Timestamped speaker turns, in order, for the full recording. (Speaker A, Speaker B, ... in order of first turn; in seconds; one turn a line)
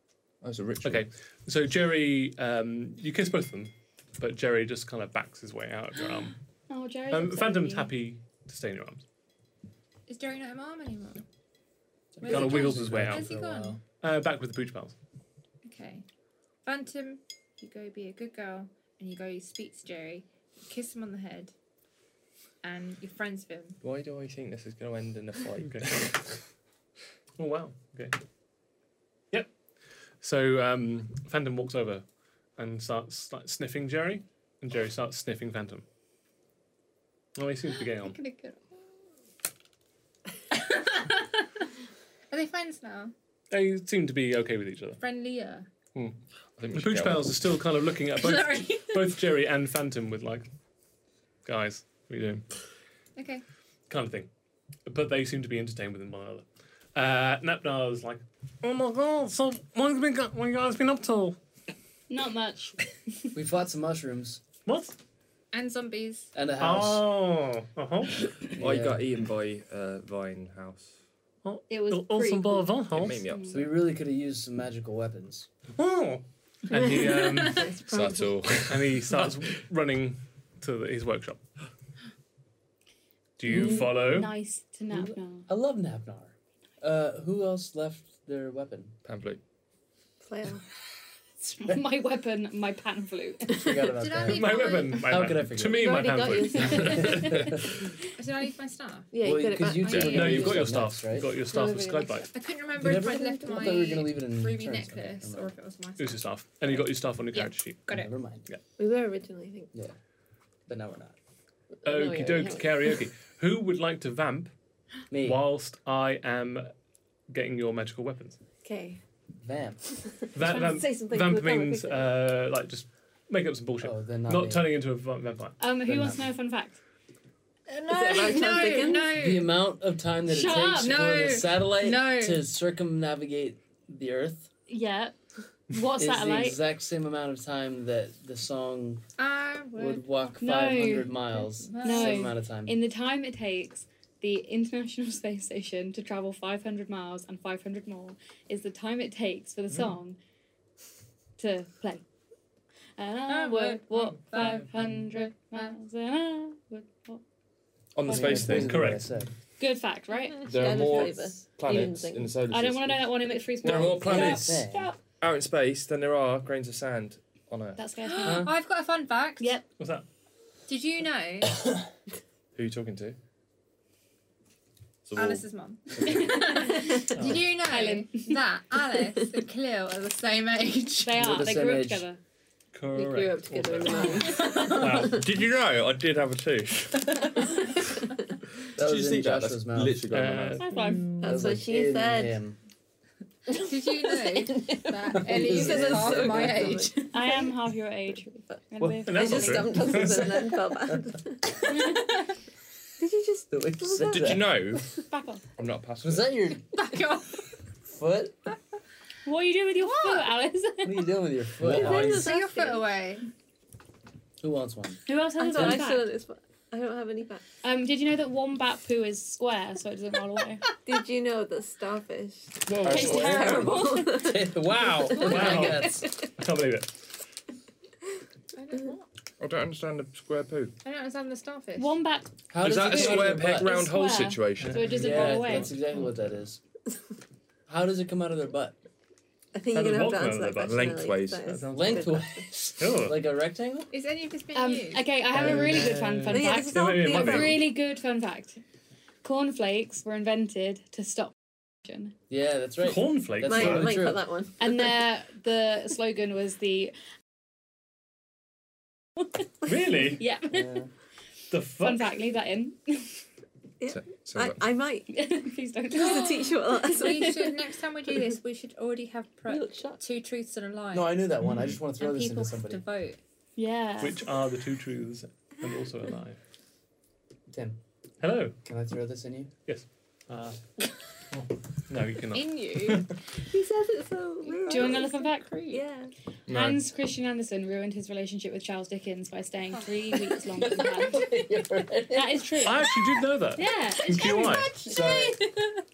Speaker A: 0.4-1.1
Speaker B: 0.8-6.3
Speaker C: 6.7-7.9
Speaker B: 7.1-9.0
Speaker D: 10.1-11.2
Speaker E: 12.2-13.8
Speaker D: 12.2-13.8
Speaker B: 12.2-13.3
Speaker B: 14.0-14.9
Speaker D: 15.6-16.0
Speaker D: 16.6-21.5
Speaker D: 22.6-23.8
Speaker A: 23.8-26.3
Speaker B: 25.6-26.1
Speaker B: 27.4-28.1
Speaker B: 30.2-32.0
Speaker B: 32.6-35.9
Speaker B: 37.4-38.2
Speaker D: 37.9-38.8
Speaker D: 40.5-41.4
Speaker D: 42.3-43.1
Speaker B: 43.5-45.0
Speaker D: 45.0-45.7
Speaker A: 46.5-47.5
Speaker B: 46.7-50.5
Speaker D: 48.1-49.1
Speaker B: 51.4-52.5
Speaker D: 53.1-53.4
Speaker B: 53.9-54.3
Speaker B: 54.9-61.4
Speaker C: 62.1-63.2
Speaker E: 63.3-64.4
Speaker B: 64.7-64.9
Speaker D: 65.5-66.3
Speaker E: 66.3-67.1
Speaker B: 66.6-68.2
Speaker E: 68.5-69.0
Speaker A: 68.6-71.0
Speaker B: 71.4-73.2
Speaker C: 71.7-73.6
Speaker A: 72.9-73.7
Speaker E: 73.5-75.5
Speaker B: 75.7-77.7
Speaker F: 76.7-78.4
Speaker A: 77.8-79.3
Speaker B: 78.6-81.4
Speaker B: 83.4-84.3
Speaker C: 83.5-85.5
Speaker E: 84.9-89.0
Speaker A: 89.0-89.4
Speaker F: 90.2-90.6
Speaker C: 91.4-93.8
Speaker E: 93.5-96.0
Speaker D: 93.9-95.1
Speaker B: 94.3-97.0
Speaker F: 95.6-97.7
Speaker E: 96.5-97.8
Speaker D: 98.2-99.1
Speaker F: 99.1-100.7
Speaker E: 99.2-101.4
Speaker A: 99.8-100.5
Speaker B: 100.0-102.3
Speaker F: 101.4-102.3
Speaker D: 102.3-108.1
Speaker E: 102.8-105.5
Speaker F: 102.8-103.9
Speaker B: 106.0-107.8
Speaker E: 107.9-108.5
Speaker F: 108.8-109.7
Speaker E: 110.7-111.2
Speaker F: 111.8-113.0
Speaker B: 111.8-114.5
Speaker E: 115.1-115.4
Speaker B: 115.2-116.7
Speaker B: 117.3-118.4
Speaker F: 118.6-119.0
Speaker E: 119.4-119.9
Speaker F: 120.0-122.1
Speaker B: 120.3-125.6
Speaker E: 123.8-124.7
Speaker C: 125.6-126.8
Speaker E: 125.8-126.3
Speaker D: 127.7-129.6
Speaker F: 127.9-129.3
Speaker E: 129.1-134.5
Speaker C: 130.3-131.0
Speaker D: 130.7-132.4
Speaker C: 134.7-135.1
Speaker C: 135.7-136.6
Speaker E: 135.9-139.0
Speaker D: 139.2-140.1
Speaker E: 139.7-142.8
Speaker C: 140.4-141.1
Speaker D: 141.3-142.3
Speaker C: 141.8-150.2
Speaker C: 151.4-152.0
Speaker C: 153.0-157.2
Speaker D: 153.3-155.7
Speaker A: 157.9-158.8
Speaker C: 158.0-158.6
Speaker E: 158.1-159.3
Speaker B: 158.5-159.1
Speaker C: 159.6-160.5
Speaker F: 160.4-162.4
Speaker A: 160.4-164.6
Speaker C: 162.5-165.0
Speaker E: 163.6-164.9
Speaker A: 165.2-167.8
Speaker C: 167.8-168.5
Speaker D: 168.1-169.6
Speaker E: 168.2-168.6
Speaker C: 169.4-169.6
Speaker B: 169.8-170.0
Speaker D: 170.7-171.6
Speaker A: 172.5-173.2
Speaker A: 175.1-175.5
Speaker D: 175.2-181.3
Speaker C: 176.4-178.4
Speaker B: 177.1-177.5
Speaker C: 181.0-182.2
Speaker E: 181.2-182.0
Speaker B: 182.7-185.2
Speaker F: 182.9-185.2
Speaker A: 184.9-187.5
Speaker E: 188.8-190.0
Speaker A: 188.8-191.6
Speaker B: 190.1-191.1
Speaker C: 190.6-191.1
Speaker F: 191.2-192.4
Speaker E: 191.2-192.6
Speaker F: 193.5-197.5
Speaker D: 193.6-197.1
Speaker E: 195.1-196.9
Speaker C: 197.1-199.9
Speaker E: 198.8-199.2
Speaker B: 199.0-200.2
Speaker F: 199.1-202.0
Speaker E: 200.0-201.0
Speaker C: 201.7-202.1
Speaker F: 203.0-204.8
Speaker E: 203.5-204.6
Speaker A: 204.1-204.9
Speaker C: 205.1-205.4
Speaker A: 205.6-206.5
Speaker E: 206.0-206.7
Speaker D: 206.7-207.5
Speaker E: 207.8-208.4
Speaker C: 209.2-211.1
Speaker D: 209.8-210.3
Speaker E: 210.8-212.3
Speaker A: 211.6-212.0
Speaker F: 211.7-212.9
Speaker D: 211.8-213.2
Speaker E: 214.4-215.8
Speaker C: 215.1-216.1
Speaker F: 215.4-217.4
Speaker C: 217.6-220.6
Speaker F: 220.8-226.3
Speaker E: 222.7-226.0
Speaker C: 222.8-224.3
Speaker A: 222.8-223.2
Speaker B: 225.2-227.0
Speaker D: 228.5-229.1
Speaker A: 229.4-230.7
Speaker D: 230.8-232.0
Speaker C: 231.8-236.0
Speaker E: 232.5-233.7
Speaker A: 232.6-234.9
Speaker B: 234.6-235.8
Speaker E: 234.9-236.6
Speaker E: 237.7-238.8
Speaker F: 239.5-242.5
Speaker B: 239.7-242.0
Speaker A: 240.7-241.6
Speaker E: 241.7-243.9
Speaker B: 242.8-243.2
Speaker D: 243.9-245.2
Speaker C: 244.5-248.6
Speaker E: 245.3-246.0
Speaker B: 245.4-247.7
Speaker F: 246.3-247.7
Speaker C: 249.2-251.3
Speaker C: 251.8-252.1
Speaker E: 252.3-254.2
Speaker B: 252.8-253.9
Speaker F: 253.4-255.0
Speaker C: 254.6-256.9
Speaker B: 259.6-260.2
Speaker C: 260.1-260.8
Speaker E: 260.5-260.9
Speaker B: 261.5-262.1
Speaker C: 261.8-263.2
Speaker F: 263.8-265.2
Speaker A: 263.9-264.7
Speaker C: 265.1-267.4
Speaker F: 265.9-267.6
Speaker D: 265.9-271.2
Speaker F: 269.4-270.0
Speaker E: 270.9-272.8
Speaker D: 271.9-273.2
Speaker C: 273.6-274.2
Speaker B: 274.0-276.4
Speaker E: 277.5-277.8
Speaker B: 278.2-278.6
Speaker E: 278.6-279.5
Speaker B: 279.7-280.6
Speaker B: 281.9-283.0
Speaker D: 282.3-283.1
Speaker F: 283.5-286.1
Speaker D: 284.4-285.8
Speaker C: 284.7-285.6
Speaker A: 286.5-286.8
Speaker C: 286.5-291.2
Speaker D: 289.7-290.1
Speaker E: 290.5-292.6
Speaker C: 292.1-293.0
Speaker B: 292.6-294.7
Speaker C: 293.6-294.7
Speaker D: 294.0-295.8
Speaker E: 294.8-295.5